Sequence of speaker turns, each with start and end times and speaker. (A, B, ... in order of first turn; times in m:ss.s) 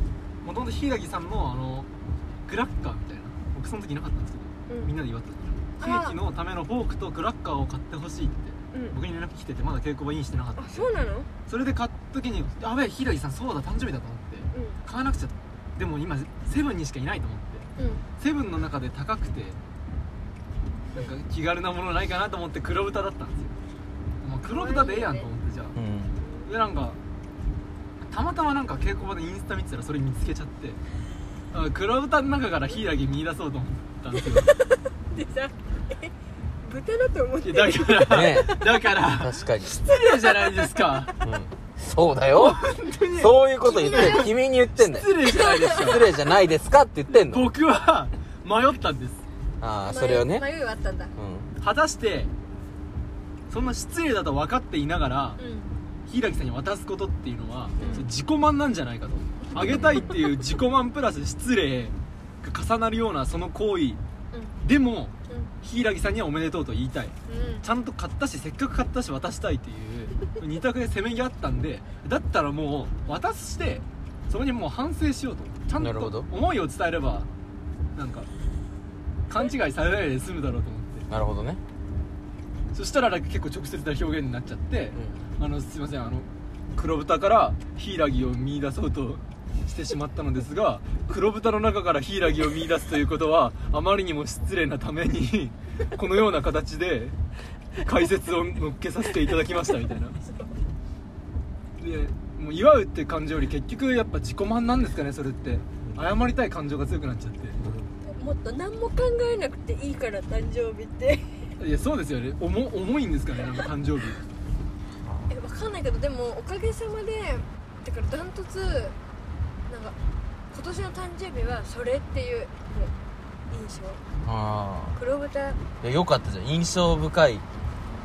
0:00.4-0:01.9 A
0:02.4-0:10.9 A
0:05.8-0:06.2 B
0:10.6-0:11.3 B
0:11.4-0:19.6 A
0:14.5-0:14.8 B
0:17.8-0:18.0 B
0:20.9-0:23.6 A
0:24.2-0:25.8 A
0:24.4-0:25.3 B
0:25.8-0:26.2 C
0:26.2-0:26.5 B
0:26.4-0:27.0 A
0:28.0-0:30.8 A
0:31.5-0:34.5 A
0:34.3-0:36.1 B
0:36.6-0:38.3 B
0:37.4-0:41.2 A
0:38.1-0:39.8 C
0:39.8-0:40.9 B
0:41.2-0:45.1 C
0:42.3-0:46.1 A
0:43.6-0:44.3 B
0:45.2-0:46.0 B
0:45.7-0:47.5 C
0:47.1-0:49.2 A
0:49.6-0:50.4 C
0:49.8-0:51.1 B
0:51.2-0:51.5 C
0:51.6-0:52.3 A
0:53.5-0:55.4 A
0:55.4-0:55.7 B
0:56.0-1:04.0 A
0:57.8-0:58.1 B
0:59.6-1:00.1 C
1:04.3-1:04.6 B
1:04.6-1:17.3 A
1:07.3-1:07.6 B
1:15.8-1:16.3 C
1:17.9-1:18.3 A
1:19.3-1:21.0 A
1:21.1-1:21.6 C
1:22.7-1:37.2 A
1:24.9-1:25.2 C
1:37.8-1:40.2 A
1:40.2-1:40.5 B
1:41.8-1:47.7 A
1:48.0-1:51.5 B
1:51.6-1:54.2 A
1:55.0-1:55.3 C
1:55.3-1:59.0 B
1:59.7-2:00.0 B
2:00.5-2:02.9 B
2:03.5-2:04.0 B
2:04.2-2:05.0 C
2:04.9-2:05.6 B
2:05.8-2:07.4 C